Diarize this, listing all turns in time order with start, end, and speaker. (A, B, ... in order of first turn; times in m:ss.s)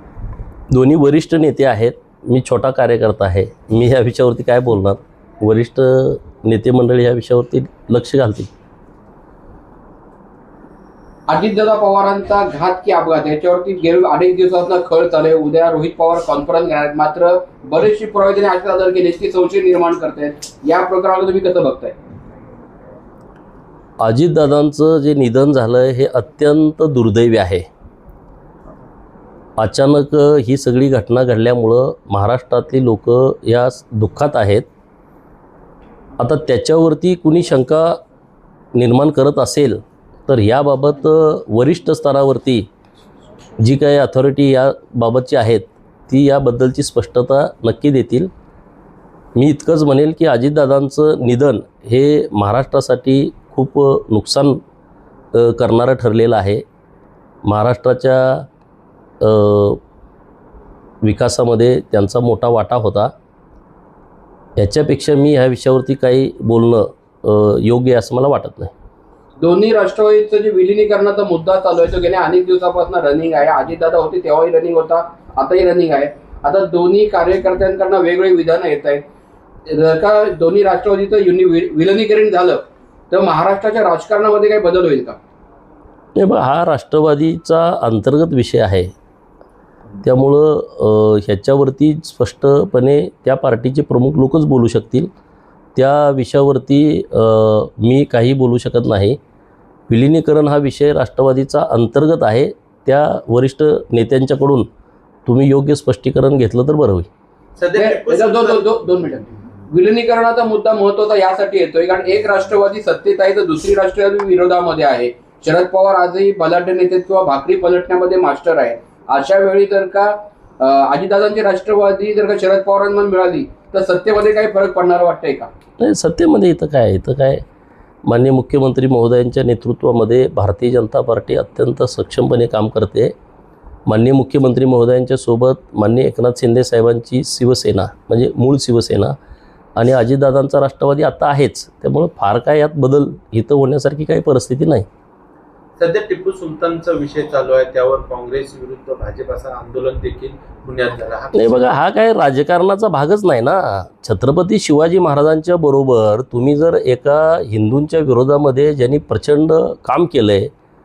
0:00.7-0:08.5 A
0:11.3-0:22.0 B
0:24.0-0:27.7 A
0:29.6-0:34.7 A
0:36.2-0:38.0 A
0:38.8-0:42.7 A
0:43.6-0:48.3 A
0:49.4-0:54.6 A
0:55.3-0:56.6 A
0:57.4-0:58.5 A
0:59.2-0:59.8 A
1:01.0-1:03.1 A
1:04.6-1:08.7 A
1:09.4-1:19.0 B
1:19.7-1:25.2 B
1:26.2-1:28.9 A
1:30.0-1:35.1 A
1:35.8-1:39.2 A
1:39.9-1:44.7 A
1:45.3-1:47.1 A
1:47.6-1:48.7 C
1:47.8-2:05.5 B
2:05.8-2:07.4 A
2:08.1-2:13.1 A
2:13.9-2:19.2 A
2:19.8-2:24.9 A
2:25.8-2:31.7 C
2:31.3-2:40.5 A